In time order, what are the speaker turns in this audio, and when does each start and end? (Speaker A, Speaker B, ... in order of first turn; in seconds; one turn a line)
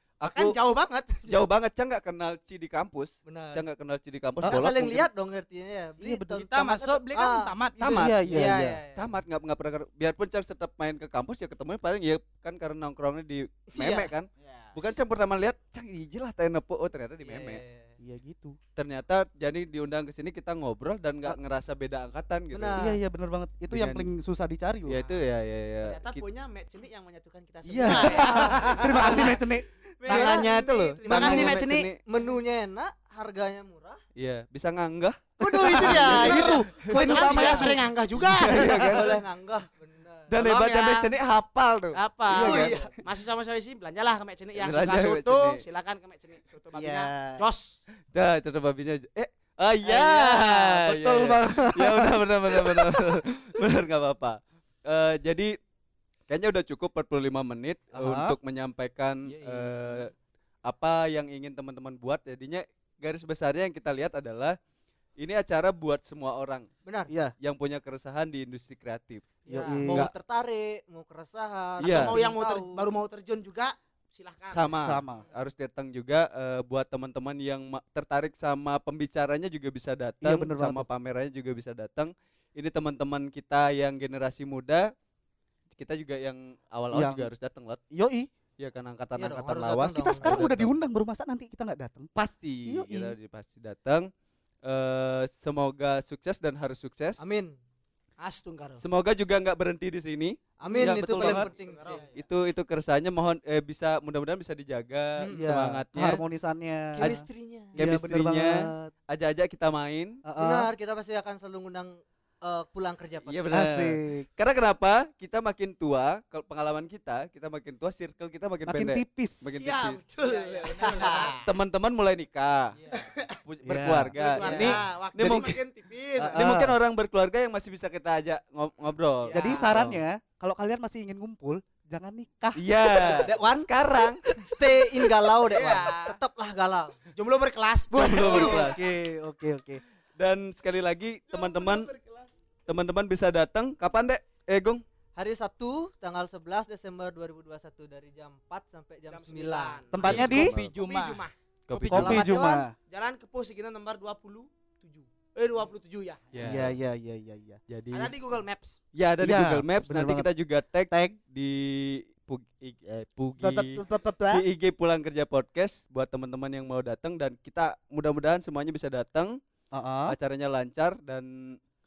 Speaker A: 0.2-0.6
Speaker B: 0.2-1.4
Speaker A: 1.2-5.1
Speaker C: 3.2-3.6
Speaker C: 4.4-7.5
Speaker D: 6.0-6.4
Speaker E: 6.3-8.4
Speaker A: 7.8-17.6
Speaker D: 8.0-8.8
Speaker C: 8.3-9.2
Speaker C: 13.7-14.1
Speaker E: 14.4-14.7
Speaker C: 17.2-17.9
Speaker D: 18.0-18.6
Speaker A: 18.7-22.8
Speaker C: 22.5-23.0
Speaker D: 22.8-25.0
Speaker A: 23.7-24.1
Speaker A: 24.9-26.2
Speaker B: 25.8-31.9
Speaker D: 27.6-30.3
Speaker A: 27.8-29.3
Speaker C: 30.1-30.5
Speaker A: 30.1-32.0
Speaker C: 31.0-34.0
Speaker A: 34.1-39.2
Speaker C: 35.4-36.6
Speaker D: 35.4-37.9
Speaker B: 35.9-39.2
Speaker C: 37.2-37.6
Speaker C: 38.5-40.3
Speaker A: 40.3-43.0
Speaker B: 40.3-41.1
Speaker B: 41.9-47.8
Speaker C: 42.3-42.9
Speaker A: 44.5-45.6
Speaker D: 46.7-47.4
Speaker A: 48.1-55.5
Speaker D: 49.8-53.2
Speaker A: 56.3-60.1
Speaker D: 57.9-58.4
Speaker E: 59.3-60.1
Speaker A: 60.6-64.6
Speaker A: 65.2-66.7
Speaker C: 66.8-67.1
Speaker A: 67.4-70.1
Speaker C: 69.5-72.8
Speaker B: 69.5-69.8
Speaker D: 69.5-70.1
Speaker A: 71.8-72.2
Speaker B: 71.8-75.0
Speaker A: 74.5-84.9
Speaker D: 74.7-75.2
Speaker D: 80.2-80.9
Speaker A: 85.7-87.8
Speaker D: 86.9-87.3
Speaker D: 87.9-88.3
Speaker A: 88.6-90.7
Speaker C: 89.2-90.5
Speaker D: 89.9-92.1
Speaker A: 92.1-94.1
Speaker D: 92.7-93.1
Speaker A: 94.6-97.2
Speaker C: 97.2-97.6
Speaker B: 98.2-98.8
Speaker A: 98.8-101.4
Speaker C: 100.6-102.0
Speaker D: 100.8-101.5
Speaker B: 101.3-102.1
Speaker E: 101.6-102.2
Speaker A: 102.1-106.2
Speaker D: 105.3-107.1
Speaker C: 107.0-107.8
Speaker A: 107.7-110.2
Speaker D: 107.8-108.9
Speaker D: 110.2-110.7
Speaker C: 110.4-113.5
Speaker A: 113.2-120.0
Speaker D: 113.5-114.2
Speaker D: 118.7-119.6
Speaker B: 119.6-121.5
Speaker E: 120.2-121.4
Speaker C: 120.8-121.4
Speaker A: 121.4-122.8
Speaker E: 122.7-123.1
Speaker B: 122.9-123.4
Speaker A: 123.4-125.6
Speaker D: 123.6-124.2
Speaker B: 124.1-126.5
Speaker C: 124.3-124.8
Speaker D: 125.2-125.6
Speaker D: 126.2-126.8
Speaker A: 126.3-130.0
Speaker B: 129.2-129.8
Speaker D: 129.3-133.2
Speaker A: 132.6-134.2
Speaker C: 133.0-133.7
Speaker C: 134.4-137.0
Speaker D: 134.5-134.9
Speaker B: 135.4-136.2
Speaker B: 137.1-138.8
Speaker A: 137.9-138.8
Speaker D: 138.2-139.8
Speaker A: 140.2-141.9
Speaker B: 141.3-142.3
Speaker A: 142.7-144.8
Speaker C: 145.2-149.8
Speaker B: 149.1-151.3
Speaker D: 149.9-150.5
Speaker A: 150.0-150.7
Speaker E: 150.0-151.3
Speaker A: 151.7-152.3
Speaker C: 151.8-152.6
Speaker D: 151.9-152.7
Speaker B: 152.9-156.8
Speaker A: 156.3-156.7
Speaker D: 156.4-157.6
Speaker A: 157.7-158.1
Speaker B: 157.9-158.8
Speaker A: 158.9-169.4
Speaker D: 159.2-160.3
Speaker D: 160.9-161.2
Speaker D: 163.4-164.4
Speaker D: 169.7-170.2
Speaker A: 170.1-171.6